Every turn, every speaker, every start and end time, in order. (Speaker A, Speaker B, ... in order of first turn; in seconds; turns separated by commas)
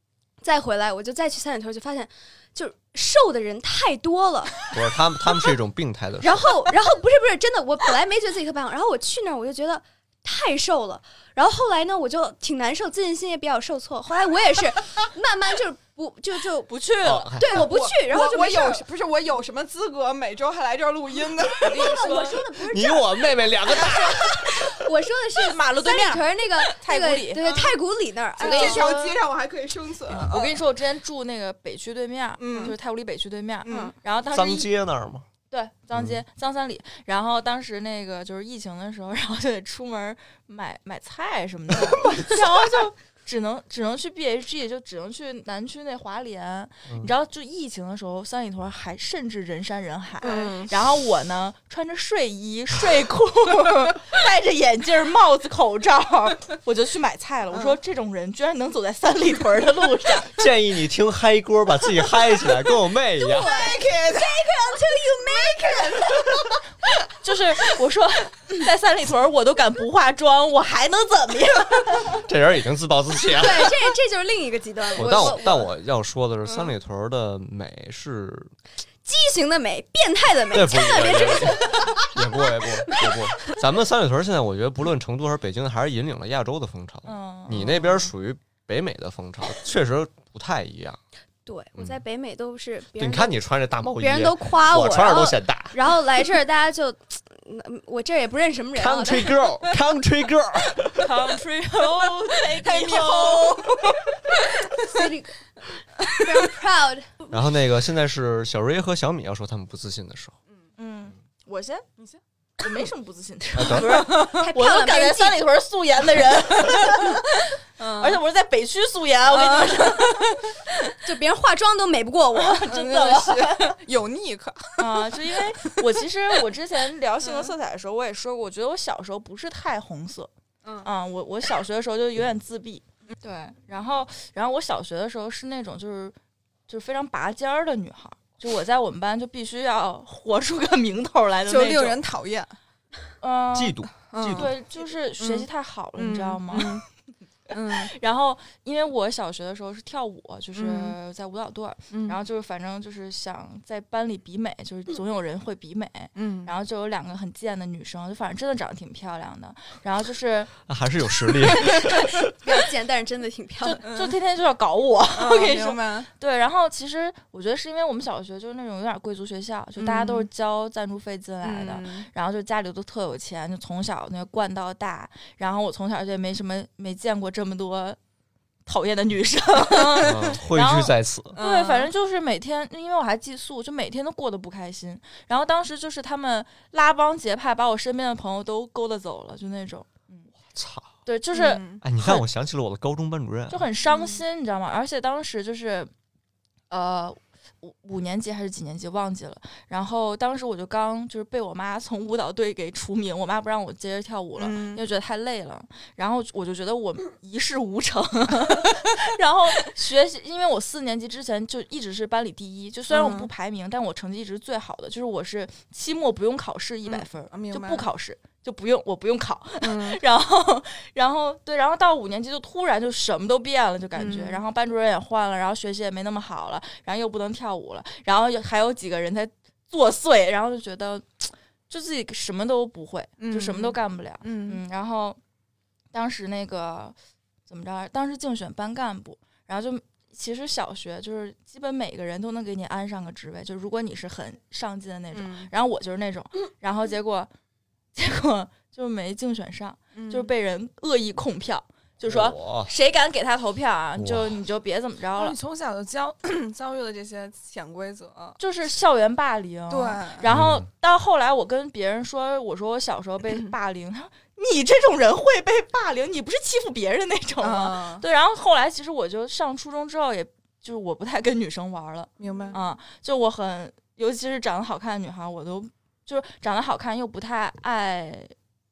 Speaker A: 0.4-4.7, Speaker B: 4.7-6.6, Speaker A: 6.2-16.7, Speaker C: 16.7-17.4, Speaker B: 17.0-17.7, Speaker A: 17.4-18.8, Speaker D: 17.4-22.1, Speaker C: 21.6-22.4, Speaker A: 21.6-28.9, Speaker B: 22.7-24.7, Speaker C: 23.7-24.0, Speaker C: 25.4-27.5, Speaker D: 27.3-27.8, Speaker D: 28.4-30.6, Speaker C: 28.4-29.2, Speaker C: 30.1-34.7, Speaker D: 32.4-32.8, Speaker D: 33.6-33.9, Speaker A: 33.7-33.9, Speaker B: 34.3-35.3, Speaker C: 35.5-60.3, Speaker B: 35.9-36.2, Speaker B: 46.9-47.1, Speaker D: 50.2-50.7, Speaker B: 60.3-63.5, Speaker A: 63.2-66.2, Speaker D: 63.4-64.5, Speaker D: 65.4-66.3, Speaker C: 67.2-72.1, Speaker B: 72.2-73.7, Speaker A: 73.3-75.7, Speaker B: 75.0-78.5, Speaker D: 76.5-76.7, Speaker A: 79.0-83.6, Speaker B: 80.5-91.0, Speaker C: 87.0-88.1, Speaker A: 91.5-99.4, Speaker B: 93.0-95.8, Speaker B: 98.8-101.1, Speaker C: 101.0-104.1, Speaker D: 102.6-104.0, Speaker B: 102.9-103.3, Speaker A: 104.8-105.4, Speaker A: 106.2-107.4, Speaker B: 107.3-110.3, Speaker C: 110.8-111.9, Speaker C: 112.6-117.3, Speaker B: 113.5-114.0, Speaker D: 113.8-114.3, Speaker A: 114.1-115.5, Speaker D: 117.8-118.2, Speaker C: 118.0-120.4, Speaker D: 119.3-120.5, Speaker A: 121.0-122.7, Speaker C: 122.4-123.8, Speaker D: 122.7-125.7, Speaker C: 124.8-130.3, Speaker D: 127.2-127.5, Speaker D: 130.6-130.9, Speaker C: 130.8-136.2, Speaker C: 136.7-142.0, Speaker D: 141.5-142.5, Speaker C: 143.2-146.8, Speaker B: 143.5-144.5, Speaker D: 144.1-144.5, Speaker D: 145.2-146.8, Speaker D: 147.5-147.9, Speaker C: 147.7-160.5, Speaker D: 150.5-151.0, Speaker D: 151.9-152.2, Speaker D: 156.2-156.5, Speaker B: 160.7-162.3, Speaker A: 162.4-163.8, Speaker C: 163.6-178.0, Speaker D: 163.8-164.1, Speaker D: 165.2-166.1, Speaker D: 169.8-170.3, Speaker D: 171.4-172.1, Speaker C: 178.7-190.3, Speaker D: 179.7-180.2, Speaker B: 180.0-181.4, Speaker D: 181.4-181.9, Speaker B: 190.5-190.9, Speaker C: 191.1-192.2, Speaker D: 191.3-191.8, Speaker B: 191.8-193.6, Speaker C: 193.5-195.9, Speaker D: 193.9-194.2, Speaker C: 196.7-235.2, Speaker D: 204.4-204.8, Speaker D: 212.9-213.3, Speaker D: 216.9-217.9, Speaker D: 219.6-220.0, Speaker D: 224.0-224.4, Speaker D: 233.2-234.6, Speaker C: 235.9-236.9, Speaker C: 237.5-247.3, Speaker D: 245.1-245.5, Speaker C: 247.9-255.4, Speaker D: 249.9-250.3, Speaker B: 252.0-252.7, Speaker B: 254.0-254.4, Speaker D: 255.2-258.4, Speaker C: 258.4-278.3, Speaker D: 259.7-260.2, Speaker B: 260.3-260.6, Speaker D: 267.4-268.0, Speaker D: 272.2-272.6